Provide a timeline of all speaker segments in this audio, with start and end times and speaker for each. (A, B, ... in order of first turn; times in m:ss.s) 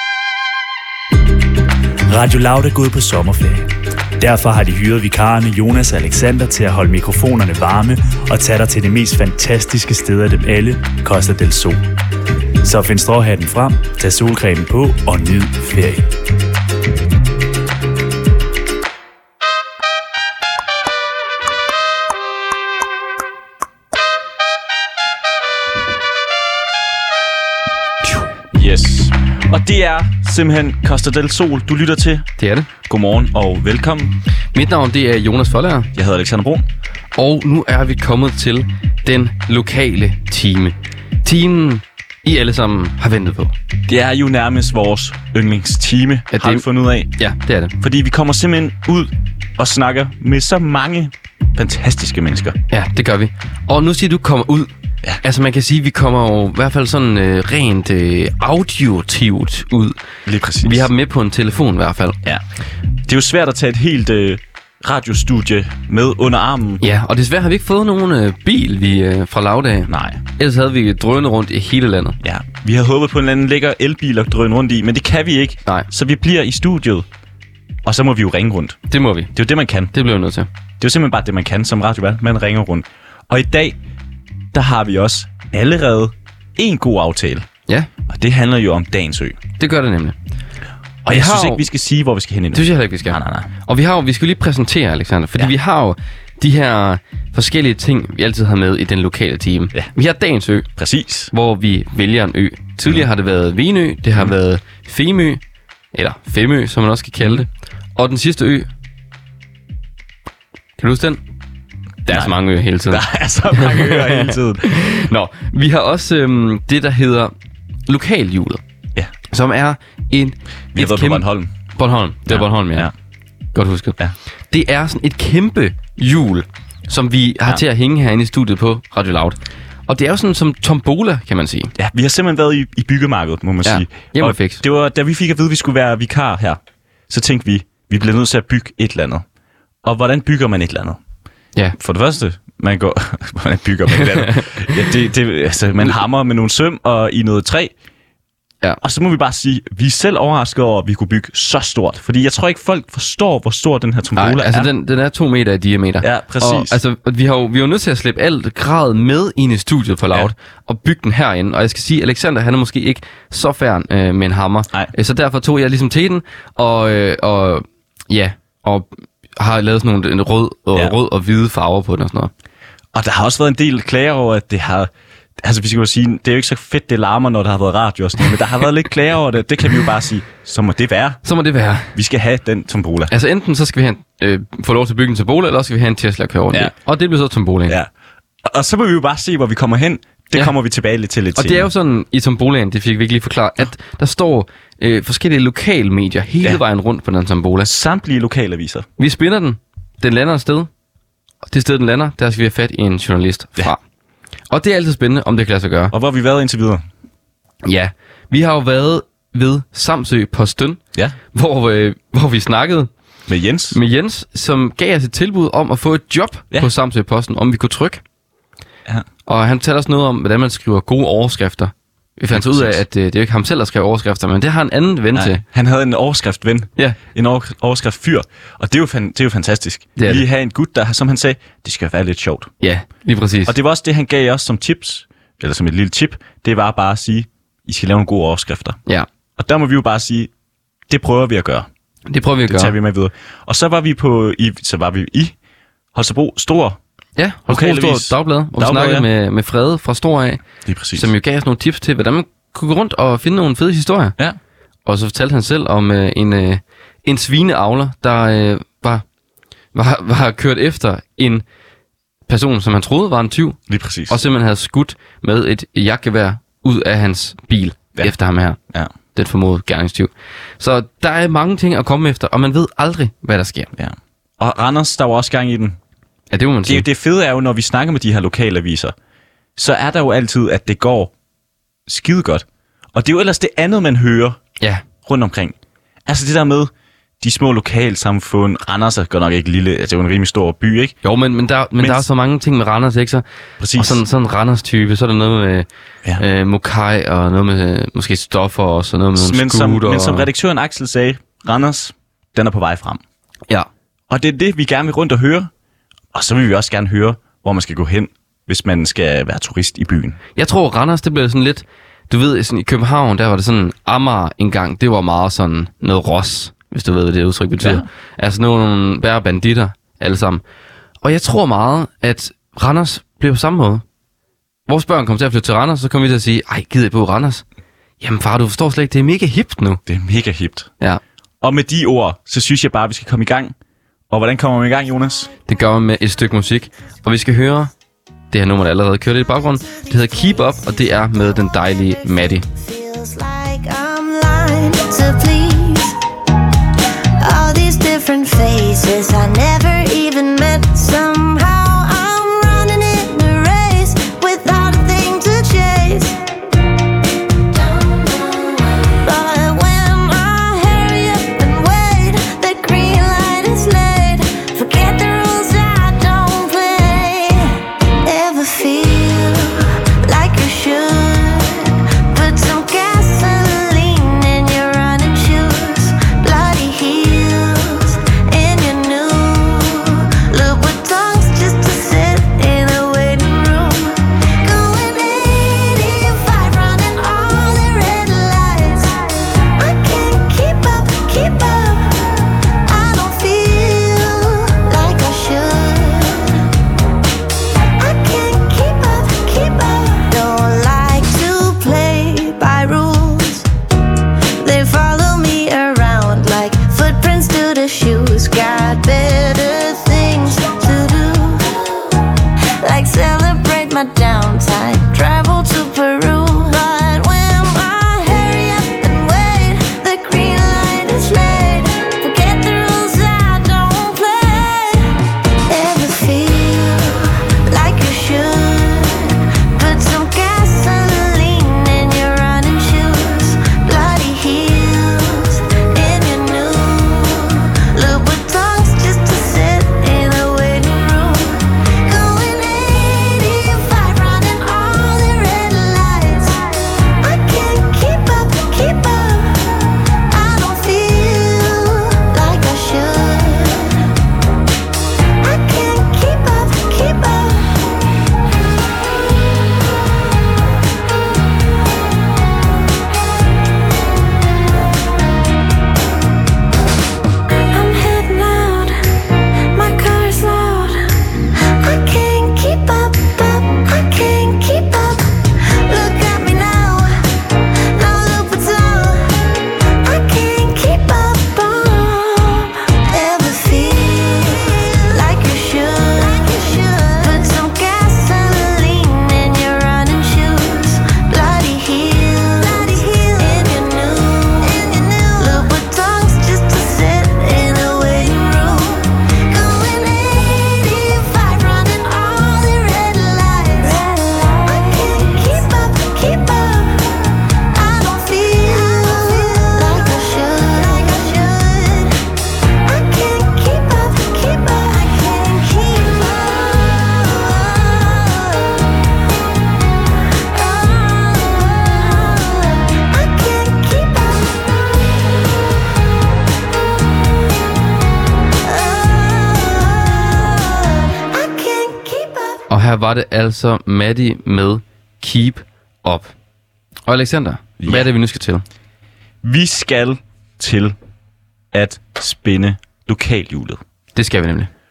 0:02.0-0:11.8 A
0:12.6-0:16.1 A
0:28.5-0:32.3 B
0:32.4-0:32.7 C
0:32.8-0:34.2 B
0:34.5-0:35.9 C
0:35.9-0:36.6 B
0:37.2-0:43.5 C
0:43.9-0:47.1 B
0:46.3-0:47.7 C
0:47.8-0:52.6 B
0:52.7-0:54.7 C
0:55.2-1:00.0 C
1:00.2-1:00.9 B
1:00.6-1:02.2 C
1:03.0-1:06.8 B
1:06.8-1:12.2 C
1:09.9-1:10.2 B
1:12.2-1:17.0 B
1:17.8-1:18.8 B
1:18.9-1:19.3 C
1:19.3-1:19.9 B
1:19.9-1:20.5 C
1:20.8-1:23.8 B
1:24.5-1:27.5 B
1:28.1-1:29.4 B
1:29.6-1:30.2 C
1:31.0-1:33.5 B
1:31.1-1:31.6 C
1:32.5-1:40.7 C
1:40.8-1:41.3 B
1:41.3-1:45.4 C
1:45.9-1:48.7 C
1:50.8-1:51.2 C
1:52.0-1:53.0 C
1:52.9-1:54.7 B
1:53.5-1:57.3 C
1:57.9-1:58.6 C
1:59.3-2:02.9 C
2:00.7-2:01.5 B
2:02.3-2:02.9 B
2:03.5-2:04.0 C
2:04.5-2:11.7 C
2:11.8-2:19.2 B
2:13.6-2:14.6 C
2:19.8-2:21.0 B
2:21.8-2:27.7 B
2:24.0-2:24.5 C
2:28.8-2:34.7 B
2:34.2-2:52.3 C
2:36.0-2:36.8 B
2:52.9-3:01.2 B
3:01.2-3:01.9 C
3:01.9-3:03.1 B
3:03.1-3:07.8 C
3:08.4-3:11.7 B
3:11.4-3:17.7 C
3:17.6-3:18.9 B
3:19.0-3:20.7 C
3:21.5-3:23.8 C
3:24.5-3:25.9 C
3:25.9-3:26.8 B
3:27.6-3:30.8 C
3:31.3-3:32.9 C
3:33.3-3:33.8 B
3:33.7-3:38.0 C
3:39.2-3:45.4 C
3:42.3-3:42.8 B
3:45.1-3:52.5 B
3:50.0-3:50.2 C
3:52.6-3:53.5 C
3:53.4-3:58.8 B
3:59.4-4:00.3 B
4:00.9-4:01.7 B
4:02.1-4:02.7 C
4:02.5-4:05.3 B
4:05.9-4:06.8 B
4:07.2-4:10.4 C
4:07.5-4:09.1 B
4:10.6-4:11.1 B
4:10.9-4:14.2 C
4:14.8-4:19.0 C
4:19.7-4:21.4 C
4:22.3-4:28.6 C
4:23.7-4:24.2 B
4:29.1-4:33.7 C
4:33.7-4:35.8 B
4:36.3-4:36.8 C
4:36.6-4:38.9 B
4:39.6-4:41.1 B
4:41.9-4:44.4 B
4:45.0-4:51.0 B
4:51.0-4:53.2 C
4:51.8-4:52.0 B
4:53.6-4:54.0 B
4:53.8-4:55.7 C
4:56.2-5:00.3 C
4:59.2-5:03.0 B
5:04.1-5:05.5 B
5:06.1-5:10.2 B
5:10.4-5:20.4 C
5:17.6-5:17.9 B
5:21.0-5:23.8 C
5:24.7-5:27.4 C
5:28.0-5:29.8 C
5:29.8-5:30.7 B
5:31.4-5:33.5 B
5:34.1-5:35.3 B
5:35.5-5:37.7 C
5:38.3-5:42.4 C
5:42.0-5:46.0 D
5:47.2-5:56.2 D
5:57.5-6:36.5 D
6:37.8-6:43.5 D
6:44.4-6:52.0 D
6:52.6-7:33.9 D
7:35.2-7:37.7 D
7:47.5-7:48.9 D
7:49.5-7:57.0 D
7:57.6-8:32.0 D
8:32.5-8:38.6 D
8:40.3-8:45.0 D
8:48.4-8:52.4 D
8:52.5-8:56.1 C
8:56.9-8:58.4 C
8:57.6-8:57.9 B
8:59.2-9:00.8 B
9:01.5-9:03.6 B
9:03.9-9:04.5 C